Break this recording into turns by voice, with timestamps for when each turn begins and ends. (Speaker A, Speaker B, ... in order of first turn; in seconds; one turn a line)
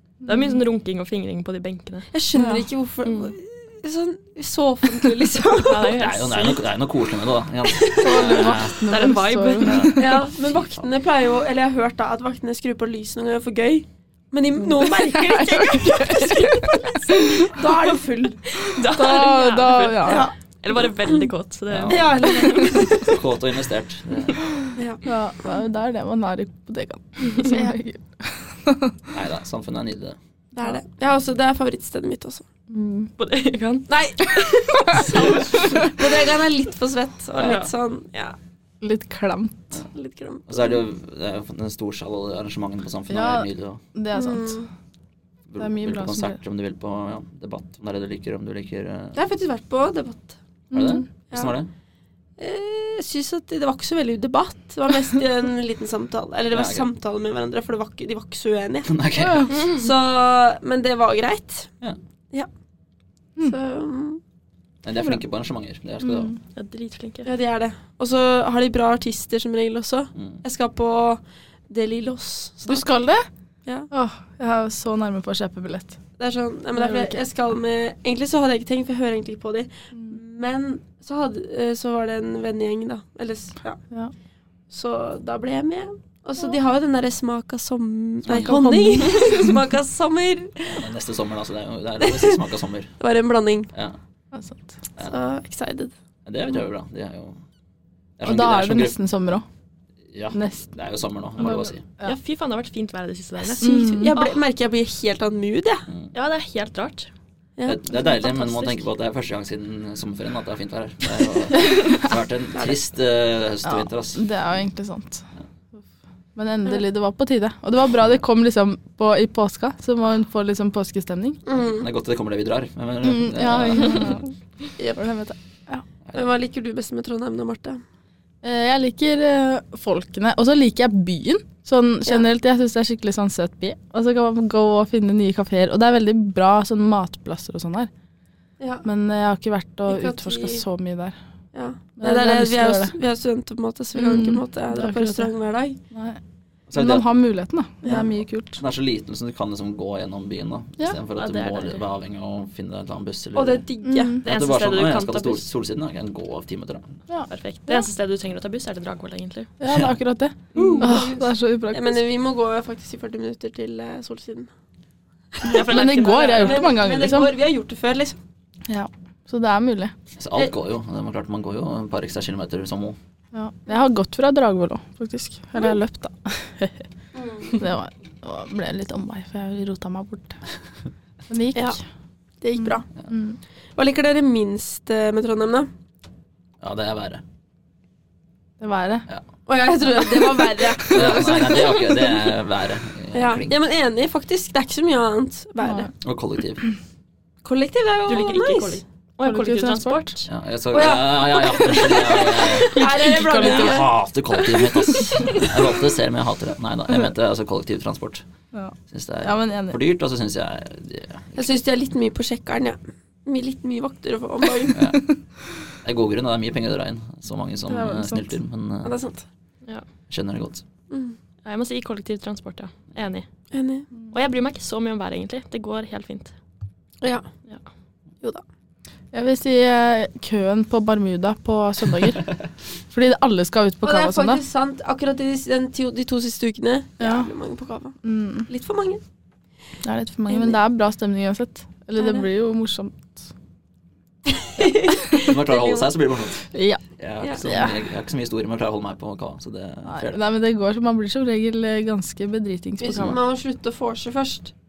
Speaker A: 0.2-2.1
Speaker B: 0.2-0.6
Speaker C: 2.1-5.9
Speaker B: 2.3-2.6
Speaker A: 3.0-3.3
Speaker A: 5.6-6.6
Speaker D: 5.9-8.8
Speaker C: 7.8-8.2
Speaker B: 8.0-10.2
Speaker A: 8.2-9.9
Speaker D: 9.6-10.9
Speaker C: 9.9-18.8
Speaker B: 15.0-17.6
Speaker A: 18.6-23.0
Speaker B: 18.9-20.3
Speaker C: 20.0-21.2
Speaker D: 21.7-24.4
Speaker C: 21.9-23.2
Speaker C: 24.8-25.0
Speaker B: 25.0-29.0
Speaker D: 29.1-30.2
Speaker C: 30.5-32.4
Speaker B: 32.7-33.1
Speaker A: 33.2-33.9
Speaker C: 33.9-38.4
Speaker B: 34.9-35.9
Speaker A: 37.3-37.7
Speaker B: 38.8-39.7
Speaker C: 39.9-40.8
Speaker D: 40.5-43.8
Speaker B: 43.1-44.6
Speaker C: 44.1-44.7
Speaker D: 45.5-49.2
Speaker B: 45.6-46.4
Speaker C: 49.1-50.4
Speaker B: 50.7-51.0
Speaker D: 50.7-51.7
Speaker C: 52.4-58.9
Speaker D: 56.5-56.9
Speaker D: 58.9-59.6
Speaker B: 59.2-59.5
Speaker A: 59.5-59.8
Speaker C: 59.5-61.7
Speaker C: 63.4-64.2
Speaker D: 64.8-66.3
Speaker B: 66.0-66.3
Speaker A: 66.5-67.3
Speaker C: 67.2-72.8
Speaker D: 70.1-70.4
Speaker B: 72.6-73.2
Speaker B: 73.9-76.0
Speaker C: 76.2-83.8
Speaker B: 76.7-77.2
Speaker C: 84.7-90.8
Speaker D: 88.2-88.5
Speaker B: 88.3-89.5
Speaker D: 90.6-93.0
Speaker C: 92.0-92.4
Speaker C: 93.0-93.7
Speaker B: 94.3-94.7
Speaker C: 95.0-95.9
Speaker D: 96.2-97.4
Speaker D: 98.2-99.0
Speaker B: 98.2-99.4
Speaker D: 100.1-101.8
Speaker B: 100.3-100.7
Speaker B: 101.4-102.2
Speaker A: 102.0-103.6
Speaker C: 103.4-105.8
Speaker B: 103.6-104.1
Speaker A: 106.1-107.1
Speaker C: 107.6-107.8
Speaker D: 107.7-114.2
Speaker B: 107.9-108.2
Speaker B: 113.6-115.2
Speaker B: 116.3-121.4
Speaker C: 121.5-121.9
Speaker D: 121.5-124.2
Speaker B: 123.0-124.2
Speaker B: 125.0-125.8
Speaker C: 126.1-127.8
Speaker B: 128.4-137.9
Speaker C: 138.6-138.8
Speaker B: 138.8-141.2
Speaker C: 139.9-140.6
Speaker C: 141.5-145.8
Speaker B: 142.0-142.9
Speaker B: 143.9-145.3
Speaker B: 145.9-146.2
Speaker D: 146.7-147.1
Speaker B: 146.7-148.6
Speaker D: 147.9-153.6
Speaker A: 151.2-151.8
Speaker C: 153.3-154.2
Speaker B: 153.8-154.2
Speaker A: 154.2-155.4
Speaker D: 154.2-157.0
Speaker B: 157.1-157.8
Speaker A: 157.3-159.5
Speaker B: 159.6-162.0
Speaker A: 160.5-161.0
Speaker C: 160.5-164.5
Speaker C: 165.3-165.6
Speaker A: 165.4-166.7
Speaker B: 165.5-167.3
Speaker C: 166.4-168.2
Speaker B: 168.7-169.9
Speaker D: 170.2-172.9
Speaker B: 173.3-176.9
Speaker C: 177.1-177.6
Speaker B: 177.6-180.4
Speaker B: 181.3-181.8
Speaker C: 182.4-182.8
Speaker B: 182.6-183.4
Speaker C: 183.8-185.7
Speaker D: 186.6-187.2
Speaker B: 188.6-189.1
Speaker C: 189.4-191.7
Speaker B: 190.8-191.2
Speaker D: 190.9-193.6
Speaker C: 193.1-195.9
Speaker B: 195.6-195.9
Speaker D: 196.0-196.6
Speaker C: 197.4-198.8
Speaker A: 198.1-200.2
Speaker B: 199.2-200.0
Speaker D: 200.2-202.8
Speaker C: 200.7-203.9
Speaker B: 202.8-203.9
Speaker D: 203.3-208.2
Speaker C: 204.5-205.7
Speaker B: 208.5-209.8
Speaker D: 208.9-211.6
Speaker C: 211.3-214.8
Speaker D: 214.7-215.0
Speaker D: 215.8-219.0
Speaker B: 217.7-218.3
Speaker C: 218.8-219.2
Speaker D: 220.1-220.6
Speaker C: 220.9-221.2
Speaker A: 221.4-223.3
Speaker C: 223.5-223.9
Speaker A: 223.9-226.3
Speaker C: 227.0-227.3
Speaker B: 229.1-232.3
Speaker B: 232.9-234.4
Speaker C: 233.8-239.0
Speaker B: 237.0-237.3
Speaker B: 238.0-238.5
Speaker B: 239.8-243.2
Speaker C: 240.3-240.6
Speaker C: 242.0-242.2
Speaker C: 244.3-245.9
Speaker D: 245.1-246.4
Speaker B: 246.5-246.8
Speaker D: 247.0-250.2
Speaker B: 247.4-247.7
Speaker B: 249.8-253.2
Speaker C: 252.8-254.5